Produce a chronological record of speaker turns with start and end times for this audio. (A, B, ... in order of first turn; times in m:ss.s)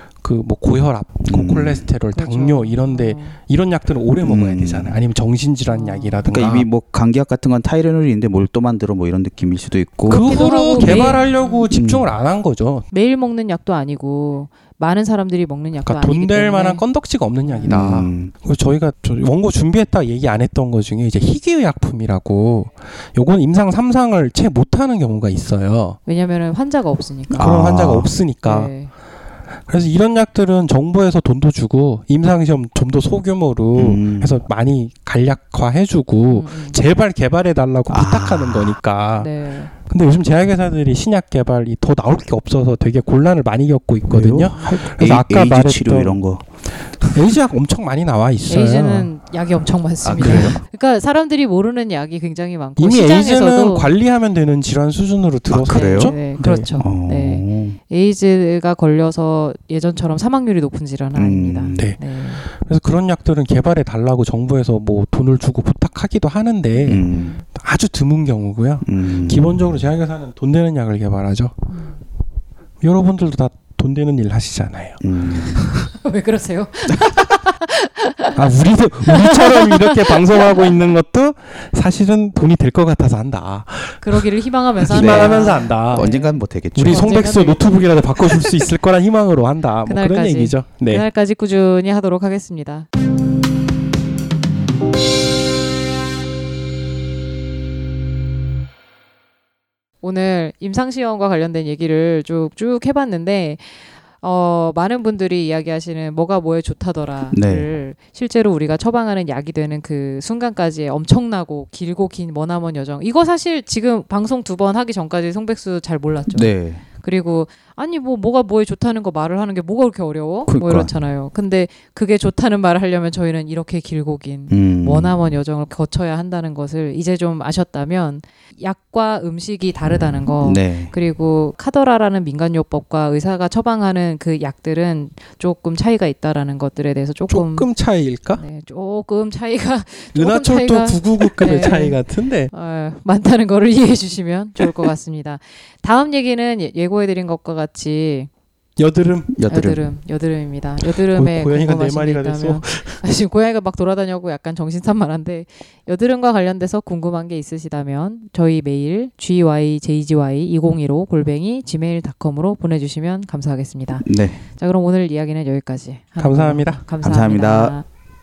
0:00.2-0:06.7 A
0:01.2-0:01.8 B
0:02.1-0:03.4 C
0:04.2-0:05.0 B
0:05.7-0:06.3 C
0:06.3-0:10.3 B
0:10.1-0:11.7 C
0:10.1-0:12.8 A
0:10.8-0:11.2 B
0:11.7-0:12.1 B
0:12.9-0:16.8 C
0:15.8-0:26.0 A
0:17.4-0:17.8 C
0:17.7-0:18.3 B
0:26.1-0:27.5 C
0:27.3-0:28.7 A
0:27.4-0:28.1 B
0:28.4-0:28.9 C
0:29.7-0:46.2 A
0:33.7-0:34.4 B
0:36.3-0:36.8 C
0:37.9-0:38.8 B
0:39.2-0:39.7 C
0:44.1-0:47.4 B
0:46.8-0:49.1 A
0:48.5-0:53.9 C
0:50.0-0:50.6 B
0:50.2-0:50.6 A
0:52.8-0:56.7 A
0:55.5-0:56.2 B
0:55.7-1:02.4 C
0:56.8-0:57.8 B
1:01.2-1:01.8 B
1:01.8-1:11.5 A
1:06.8-1:07.3 B
1:07.1-1:07.4 C
1:08.8-1:09.7 B
1:11.7-1:12.0 C
1:12.8-1:15.9 A
1:15.0-1:15.7 B
1:16.0-1:18.4 C
1:18.4-1:24.2 A
1:19.1-1:20.8 C
1:24.0-1:28.5 C
1:24.8-1:26.2 A
1:24.9-1:27.2 B
1:26.8-1:31.0 A
1:29.9-1:32.9 C
1:40.0-2:17.7 C
1:47.3-1:47.7 B
1:56.3-1:56.8 B
2:00.5-2:00.9 B
2:04.5-2:05.1 B
2:10.4-2:10.9 B
2:17.3-2:18.4 A
2:18.3-2:22.0 C
2:20.2-2:22.5 A
2:22.5-2:28.3 C
2:28.8-2:29.3 A
2:29.3-2:29.8 B
2:29.5-2:47.9 C
2:31.0-2:33.0 A
2:44.0-2:44.4 B
2:46.2-2:46.8 A
2:47.0-2:47.8 B